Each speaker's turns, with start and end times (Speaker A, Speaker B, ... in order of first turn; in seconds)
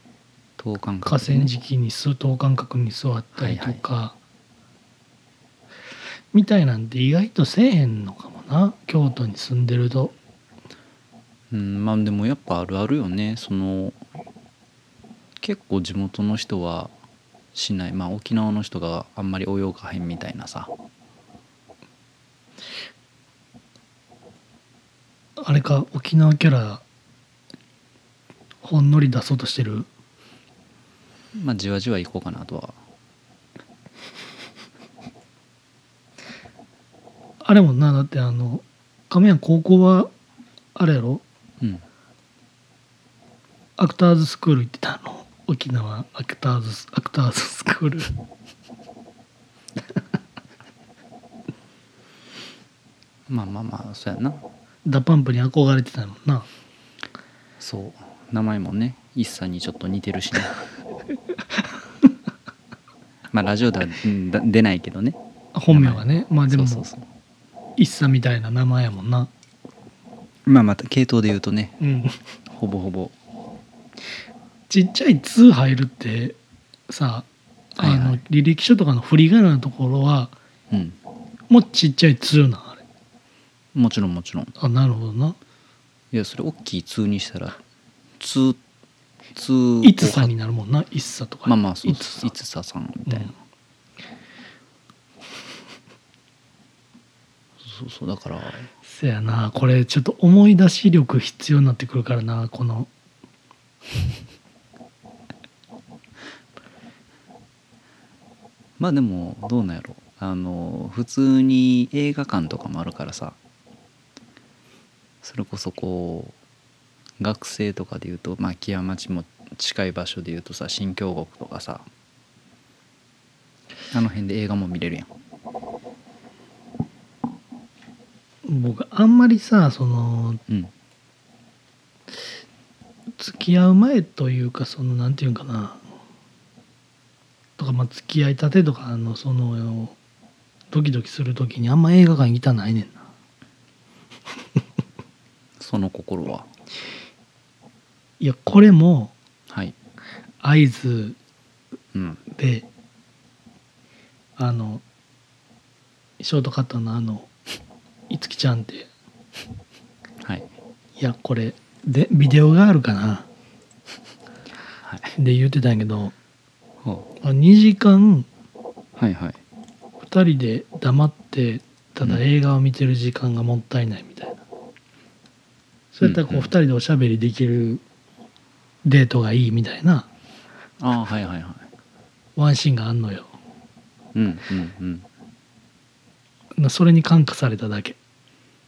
Speaker A: 0.6-1.5, 3.4-3.8, 11.5-14.0, 15.4-16.9, 17.5-20.7, 31.4-32.8, 53.3-54.4, 57.6-60.6, 63.3-65.2, 65.7-67.0, 70.5-71.8, 72.5-73.1, 77.8-78.2, 80.7-81.0, 83.8-84.5, 86.1-87.6, 88.2-88.6, 89.3-90.3, 91.5-93.3, 97.6-98.7, 108.8-113.4, 115.2-116.4, 117.2-121.9, 123.9-125.1, 145.6-146.5, 149.5-149.8, 151.9-152.2, 164.8-165.1, 169.0-169.4, 176.0-176.5, 180.8-181.7, 184.1-185.1
Speaker B: 1.1-4.2, 6.3-10.1, 25.4-26.8, 28.6-29.9, 37.4-40.1, 40.8-41.2, 43.8-48.1, 54.9-56.5, 65.5-66.9, 67.8-69.3, 71.8-72.2, 74.7-76.4, 76.9-80.3, 81.5-82.8, 84.6-85.4, 89.8-92.3, 98.8-102.9, 128.4-130.4, 133.2-135.8, 137.6-139.9, 140.7-143.0, 148.2-149.1, 150.4-151.2, 152.3-152.7, 154.4-154.8, 156.2-157.3, 158.1-158.9, 161.0-163.3, 165.2-166.1, 167.2-168.3, 170.1-174.4, 175.9-177.8, 178.8-180.1, 182.4-183.3, 186.6-188.0